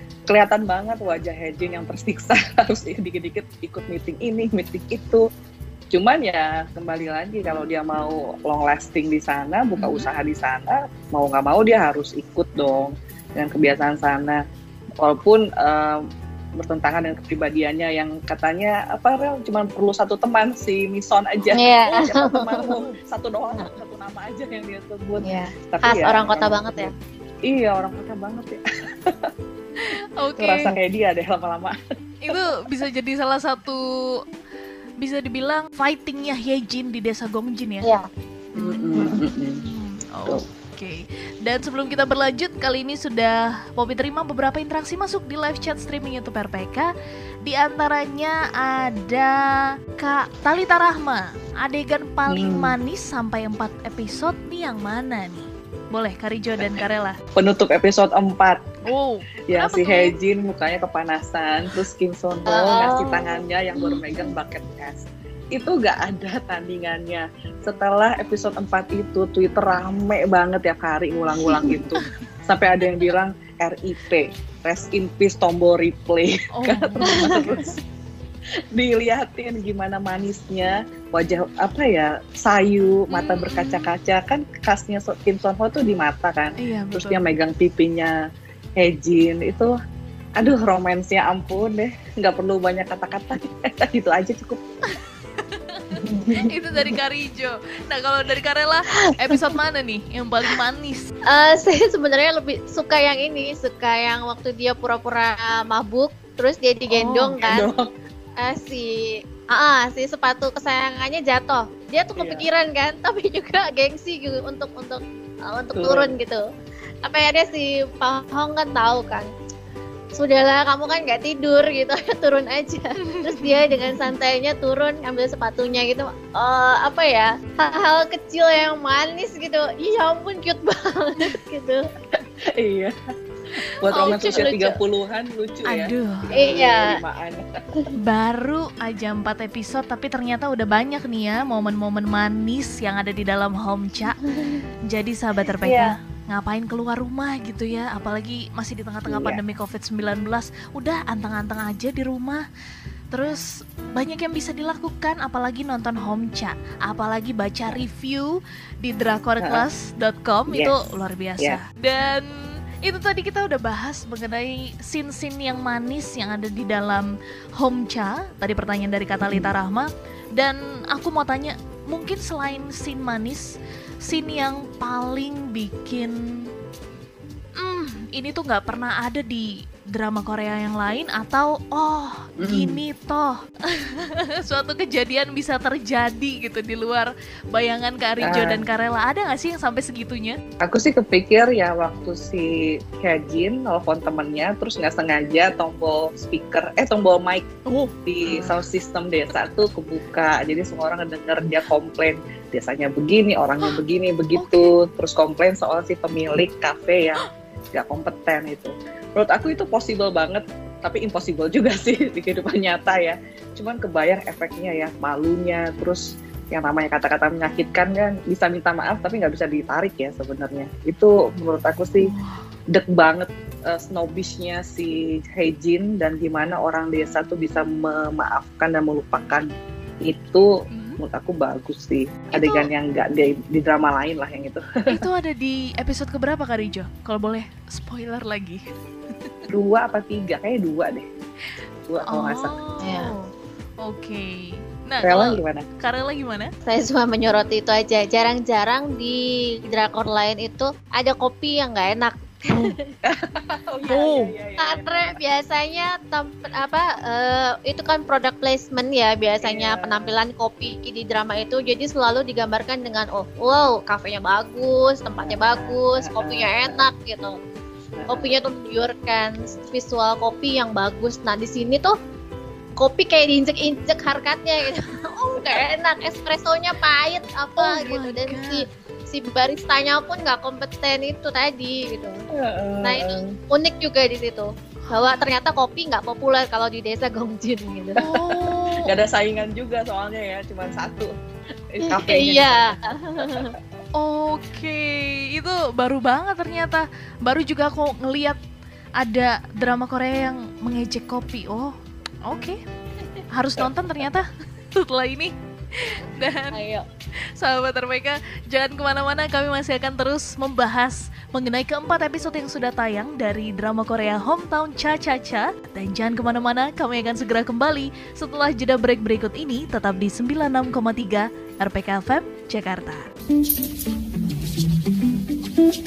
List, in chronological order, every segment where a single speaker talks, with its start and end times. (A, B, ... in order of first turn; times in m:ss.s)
0:00.3-0:05.2 A
0:05.9-0:14.4 A
0:09.8-0:10.1 B
0:15.0-0:16.0 A
0:16.6-0:26.9 A
0:21.5-0:22.8 C
0:25.2-0:26.9 C
0:27.5-0:29.3 A
0:29.8-0:30.7 B
0:30.4-0:31.8 A
0:32.2-0:34.2 B
0:32.3-0:32.6 A
0:35.0-0:37.9 B
0:38.6-0:39.6 A
0:38.6-0:46.9 B
0:39.0-0:39.2 C
0:47.4-0:49.4 B
0:50.0-0:57.2 B
0:52.3-0:52.8 A
0:57.4-0:58.7 A
0:58.9-1:00.1 B
0:59.5-1:17.7 A
1:02.5-1:03.4 C
1:11.4-1:11.8 C
1:16.5-1:17.8 B
1:17.0-1:17.7 C
1:18.7-1:28.2 A
1:23.1-1:23.9 B
1:26.6-1:27.2 B
1:28.8-1:29.8 A
1:30.4-1:34.6 A
1:35.4-1:41.1 B
1:36.0-1:37.0 C
1:38.9-1:39.5 C
1:41.3-1:47.7 C
1:46.9-1:47.4 B
1:47.4-1:47.9 A
1:48.4-1:56.4 C
1:52.2-1:52.5 A
1:55.8-1:56.1 A
1:57.0-1:59.3 C
2:00.1-2:11.9 C
2:03.0-2:03.7 B
2:12.5-2:12.9 A
2:13.8-2:17.5 A
2:13.9-2:14.4 B
2:13.9-2:14.8 C
2:15.7-2:16.5 B
2:16.4-2:17.0 C
2:18.0-2:24.2 B
2:24.2-2:24.6 C
2:24.9-2:32.4 B
2:25.6-2:26.0 C
2:29.1-2:29.4 A
2:33.1-2:42.3 B
2:40.5-2:40.8 A
2:42.8-2:56.5 B
2:49.2-2:49.5 A
2:57.6-3:10.4 B
3:02.4-3:02.8 A
3:08.2-3:08.6 A
3:10.6-3:17.5 A
3:17.7-3:18.6 B
3:18.1-3:27.2 A
3:24.4-3:24.7 B
3:27.7-3:42.1 A
3:42.0-3:42.4 B
3:42.7-3:49.5 A
3:50.0-3:50.5 A
3:50.7-3:51.0 B
3:51.0-3:55.0 A
3:52.3-3:52.7 B
3:54.9-3:58.6 B
3:59.5-4:01.1 A
4:01.9-4:02.6 A
4:02.1-4:03.3 B
4:02.8-4:03.1 C
4:03.8-4:06.5 B
4:05.0-4:05.7 A
4:06.7-4:12.9 C
4:13.0-4:15.2 A
4:13.9-4:14.3 B
4:14.6-4:27.4 C
4:19.4-4:20.1 A
4:25.2-4:26.9 A
4:28.0-4:28.4 A
4:28.1-4:31.9 C
4:32.8-4:42.2 C
4:37.6-4:38.6 B
4:42.3-4:43.3 A
4:42.8-4:48.0 C
4:48.0-4:48.9 B
4:48.8-4:51.1 A
4:51.7-4:53.5 A
4:51.8-4:53.5 C
4:54.0-4:58.4 B
4:59.0-5:01.7 B
5:02.3-5:02.6 B
5:03.3-5:06.6 B
5:06.5-5:06.9 C
5:07.4-5:23.1 B